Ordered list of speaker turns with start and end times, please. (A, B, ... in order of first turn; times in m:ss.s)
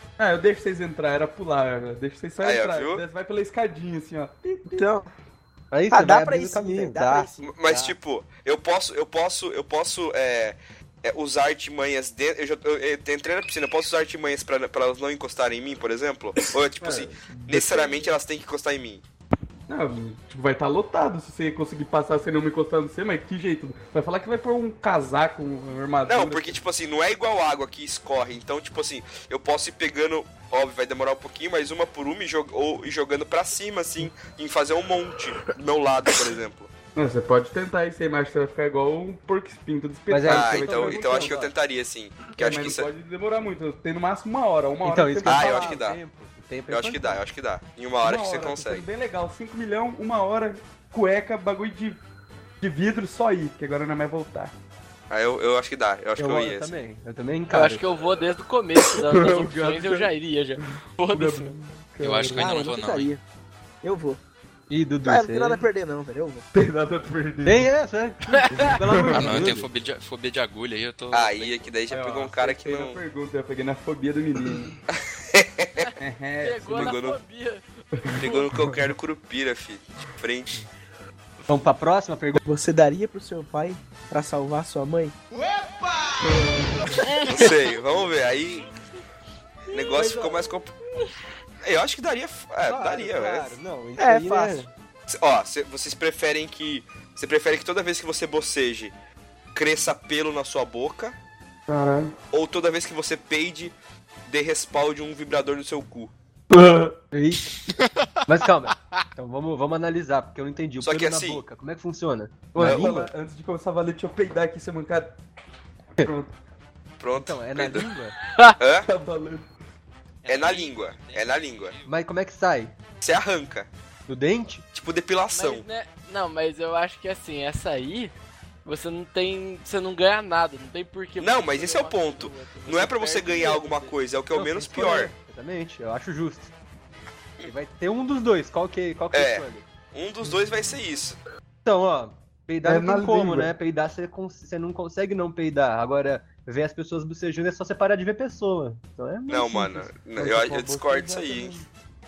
0:00.2-0:04.8 A
0:02.4-0:03.0 B
0:04.7-0:05.0 C
0:05.7-0:07.9 D
0:05.9-0:07.5 C
0:07.4-0:19.0 B
0:16.8-0:17.1 D
0:17.3-0:18.0 A
0:19.7-0:26.6 A
0:26.0-0:36.7 B
0:37.0-0:41.4 A
0:40.1-0:41.5 D
0:40.2-0:42.9 B
0:42.3-0:45.8 A
0:44.8-0:47.2 D
0:45.2-0:46.0 B
0:46.7-0:48.8 B
0:48.0-0:52.0 A
0:52.6-0:54.5 A
0:55.1-0:56.8 B
0:56.2-0:57.8 D
0:57.5-1:01.5 E
0:58.9-1:00.1 A
1:01.1-1:02.5 A
1:02.0-1:03.1 F
1:02.3-1:03.2 C
1:03.8-1:04.2 C
1:04.7-1:05.6 D
1:05.0-1:06.4 C
1:06.5-1:07.7 A
1:07.4-1:09.7 D
1:08.5-1:09.5 A
1:09.1-1:11.7 F
1:11.1-1:13.0 B
1:11.9-1:14.8 A
1:15.0-1:15.9 B
1:16.0-1:17.1 A
1:16.4-1:18.5 E
1:16.7-1:17.2 B
1:18.1-1:18.8 A
1:18.2-1:20.6 B
1:21.5-1:22.4 D
1:22.4-1:25.1 C
1:26.3-1:26.7 A
1:27.0-1:27.5 E
1:27.2-1:28.7 B
1:29.7-1:30.7 B
1:29.9-1:30.4 D
1:31.6-1:33.5 B
1:32.6-1:34.7 D
1:34.0-1:34.7 C
1:35.1-1:38.9 B
1:39.5-1:41.2 B
1:41.7-1:42.1 A
1:42.3-1:43.7 B
1:44.3-1:46.1 B
1:46.5-1:47.0 A
1:47.1-1:47.7 D
1:48.3-1:53.1 D
1:50.8-1:51.4 B
1:52.6-1:55.1 A
1:52.6-1:52.9 B
1:56.0-1:56.3 A
1:57.0-1:57.9 B
1:57.1-1:58.2 D
1:58.3-1:58.6 E
1:58.6-1:58.9 B
1:58.8-1:59.5 A
2:00.2-2:01.9 F
2:00.3-2:01.8 B
2:01.8-2:02.7 D
2:03.0-2:03.7 B
2:04.1-2:04.6 D
2:04.7-2:05.6 B
2:05.3-2:08.1 E
2:08.6-2:14.0 E
2:11.2-2:15.1 B
2:14.3-2:16.5 D
2:17.4-2:19.6 D
2:19.1-2:21.2 B
2:21.6-2:29.9 D
2:22.6-2:23.5 A
2:29.3-2:31.6 B
2:30.2-2:31.6 A